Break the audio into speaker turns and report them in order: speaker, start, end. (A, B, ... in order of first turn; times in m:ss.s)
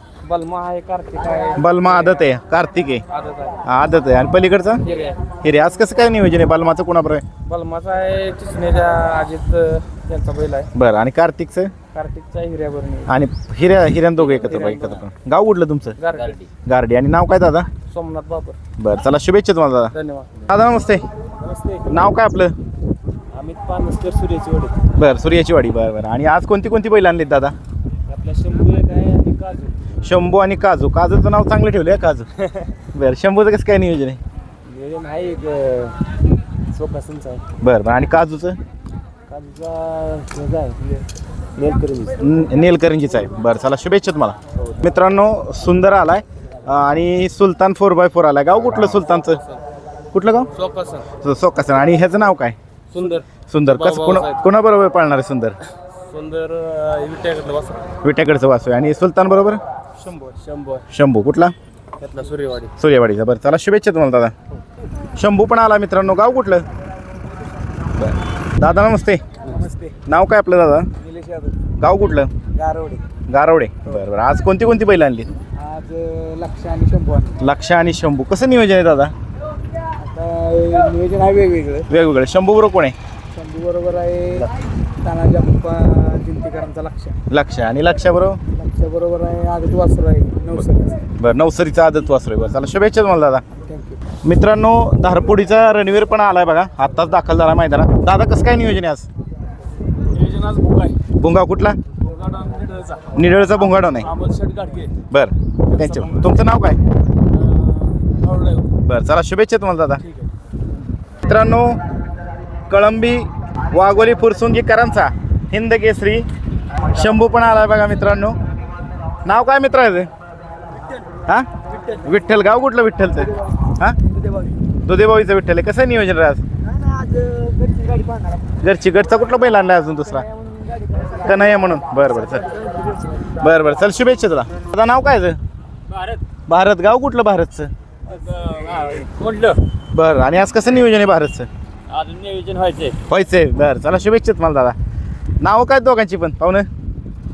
0:00.2-0:02.2 A
0:01.6-0:03.0 B
0:03.1-0:03.6 A
0:03.6-0:04.8 B
0:04.8-0:05.2 A
0:05.4-0:07.2 B
0:07.4-0:10.7 A
0:10.7-0:11.7 B
0:11.9-0:13.1 A
0:13.1-0:16.0 B
0:14.2-0:15.0 A
0:16.0-0:16.4 A
0:16.2-0:16.4 C
0:16.6-0:17.7 B
0:17.9-0:18.6 A
0:18.8-0:19.9 B
0:19.9-0:20.3 A
0:20.5-0:21.0 B
0:21.4-0:21.8 A
0:21.9-0:22.5 B
0:23.3-0:24.7 A
0:25.0-0:27.5 B
0:28.1-0:29.7 A
0:30.0-0:32.3 B
0:32.9-0:34.2 B
0:34.7-0:36.0 A
0:36.7-0:37.4 A
0:37.6-0:38.6 B
0:39.3-0:40.8 A
0:41.6-0:42.0 A
0:42.2-0:49.4 B
0:49.3-0:49.6 A
0:50.1-0:50.5 B
0:50.5-0:51.1 A
0:51.2-0:52.6 B
0:52.9-0:54.4 A
0:53.5-0:55.6 B
0:56.0-0:57.9 A
0:58.0-0:59.6 B
1:00.0-1:00.8 A
1:00.9-1:01.5 B
1:02.0-1:02.7 A
1:02.8-1:04.3 B
1:05.2-1:06.6 B
1:08.0-1:09.2 B
1:09.5-1:09.9 A
1:10.0-1:10.9 B
1:11.0-1:11.5 A
1:11.8-1:12.3 B
1:12.6-1:13.0 A
1:13.3-1:15.3 B
1:15.6-1:17.4 A
1:17.4-1:19.1 B
1:20.0-1:21.9 A
1:21.9-1:23.0 B
1:23.3-1:24.5 A
1:25.0-1:27.1 A
1:27.3-1:28.4 B
1:28.5-1:31.0 A
1:31.2-1:33.4 B
1:33.6-1:34.0 A
1:34.2-1:39.1 B
1:40.1-1:40.9 A
1:41.2-1:41.8 B
1:42.1-1:43.1 A
1:43.1-1:44.1 B
1:44.0-1:44.9 A
1:45.1-1:46.8 B
1:45.8-1:46.3 A
1:47.3-1:48.7 A
1:48.8-1:50.0 B
1:51.2-1:51.8 B
1:52.7-1:58.4 B
1:59.2-2:00.1 B
2:01.2-2:04.0 B
2:04.1-2:04.6 A
2:04.8-2:06.4 B
2:06.6-2:08.4 A
2:08.6-2:10.3 B
2:10.3-2:11.2 A
2:11.2-2:12.4 B
2:12.4-2:13.1 A
2:13.3-2:15.4 B
2:16.5-2:17.7 B
2:18.2-2:19.6 C
2:18.4-2:19.2 A
2:19.9-2:21.5 B
2:21.9-2:23.0 C
2:23.0-2:24.8 B
2:25.4-2:26.7 B